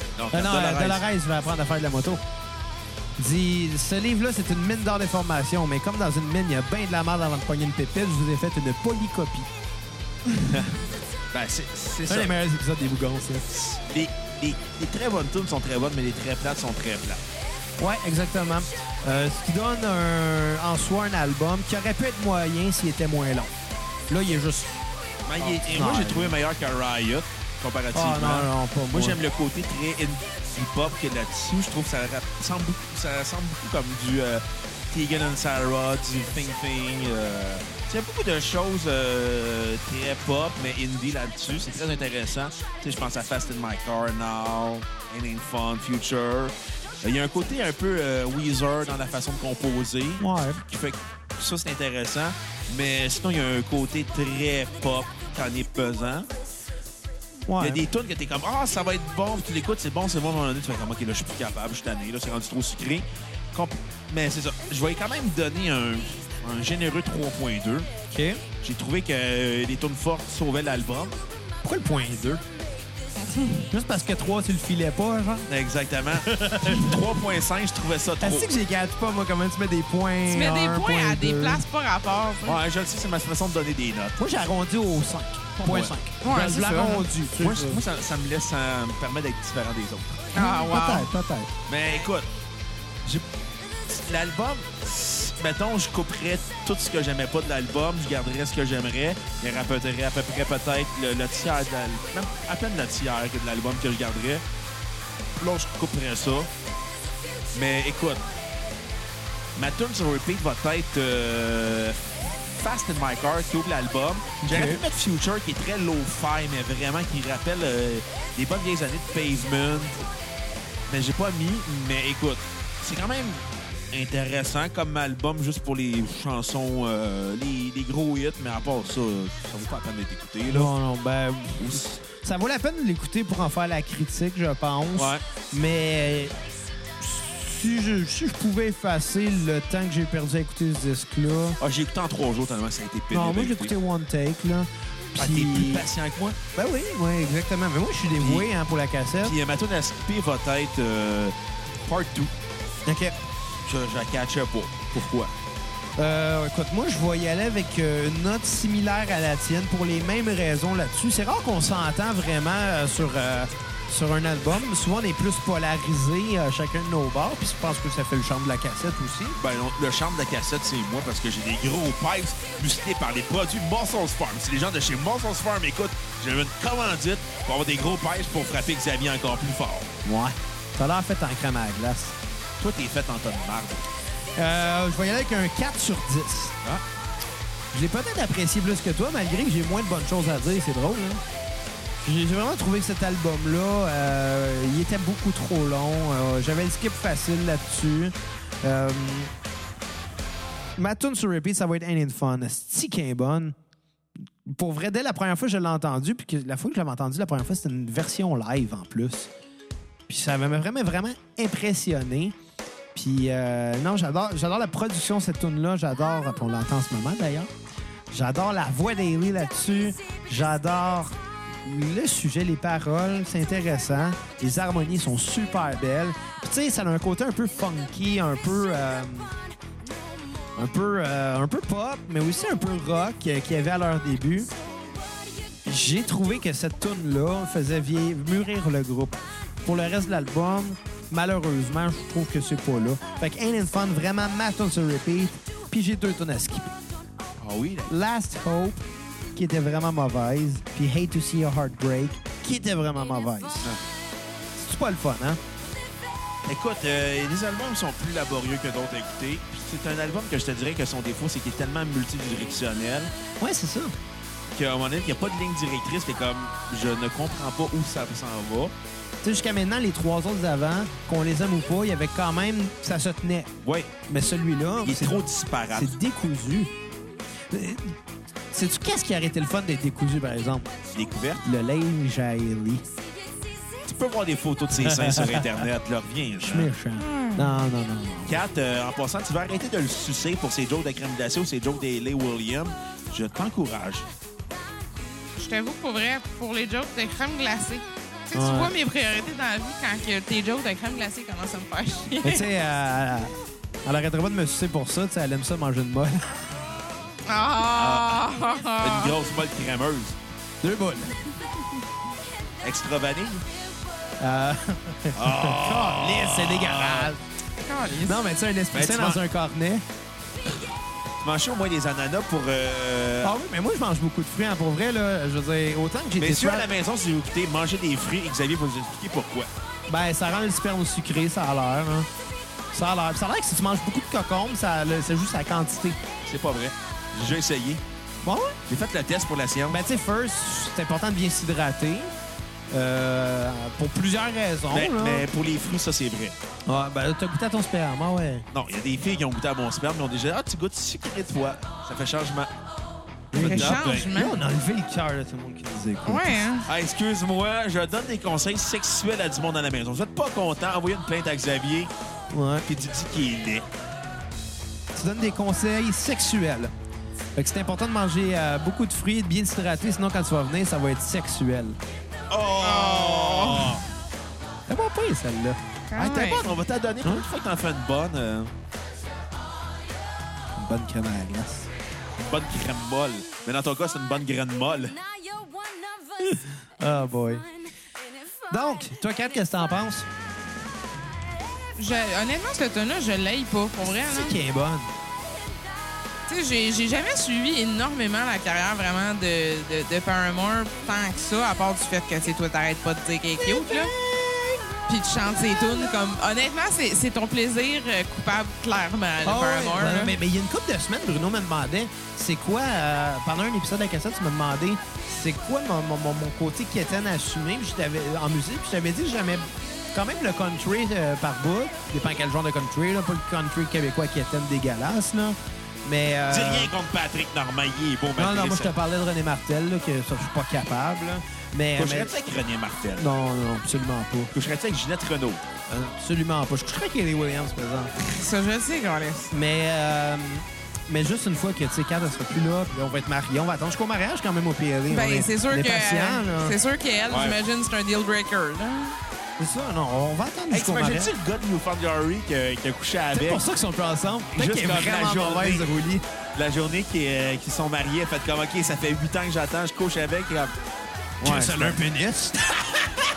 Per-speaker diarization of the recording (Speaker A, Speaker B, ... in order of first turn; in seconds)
Speaker A: 0.2-1.0, 10.3-10.8, 11.3-12.3, 13.5-17.2, 25.3-56.3, 57.6-67.9, 68.6-71.2, 75.5-78.5, 82.4-84.2, 85.6-85.9, 87.3-90.3, 91.7-92.3, 93.9-104.4, 105.4-106.5, 107.5-108.3, 109.6-120.1, 120.9-130.7, 131.6-131.9, 134.9-135.2, 141.6-143.8, 145.2-146.4, 148.2-148.5, 149.2-152.3, 153.6-155.3, 169.4-179.9, 182.6-183.9, 247.4-247.9, 256.5-263.1, 264.5-268.7, 273.6-273.9, 274.8-275.9, 280.9-281.4, 283.8-286.7, 288.3-294.1, 307.7-310.2, 312.6-313.4, 315.1-317.1, 318.7-319.2, 321.2-323.4, 326.2-329.5, 336.2-337.8, 338.7-339.8, 344.7-346.4, 348.5-352.5, 353.3-354.1, 356.7-361.9, 362.7-363.7, 372.3-373.8, 376.0-378.5, 382.2-385.0, 426.3-428.7, 431.8-433.1, 434.3-435.5, 447.1-447.4, 450.5-453.4, 454.4-455.7, 456.4-460.6, 461.2-461.8
Speaker B: 0.3-2.2, 3.2-9.5, 12.1-13.5, 17.8-23.5, 24.1-24.9, 25.4-26.4, 27.9-29.2, 50.2-50.6, 57.5-57.8, 68.1-68.4, 71.6-72.4, 73.7-75.5, 76.2-77.0, 78.2-81.6, 84.2-87.8, 90.3-91.5, 114.4-114.8, 130.5-136.3, 137.0-141.6, 143.1-145.9, 146.5-149.3, 152.9-153.2, 156.0-169.4, 180.0-182.2, 184.4-186.6, 187.7-191.2, 192.0-199.3, 200.8-203.6, 204.5-209.3, 210.1-212.3, 212.9-217.5, 218.1-229.3, 230.6-234.5, 235.7-246.7, 247.9-253.7, 254.6-255.4, 263.4-263.9, 269.2-273.5, 274.1-275.2, 275.7-276.7, 277.5-278.0, 278.5-280.7, 281.4-282.9, 284.8-285.6, 286.4-288.4, 298.3-298.7, 302.2-306.3, 310.6-311.2, 314.2-317.2, 318.0-319.8, 323.2-326.7, 329.9-332.1, 332.7-336.0, 338.2-338.6, 339.7-342.1, 342.7-345.3, 346.7-348.5, 353.3-356.4, 362.3-362.7, 364.9-366.7, 367.4-371.8, 374.7-375.6, 380.6-381.7, 386.2-387.4, 388.5-390.1, 393.9-394.9, 403.4-404.6, 409.2-426.7, 428.2-432.1, 433.0-434.3, 435.7-437.9, 439.3-446.6, 449.4-451.1, 453.1-456.0, 461.2-462.6
Speaker C: 73.2-73.5, 80.3-82.6, 86.2-87.1, 90.3-91.1, 287.0-287.6, 295.4-302.5, 307.2-309.2, 317.6-318.2, 353.4-354.4, 356.1-356.7, 372.6-373.8, 375.9-376.5, 391.8-394.4, 396.3-403.9, 404.9-410.2, 438.0-439.3, 444.9-449.0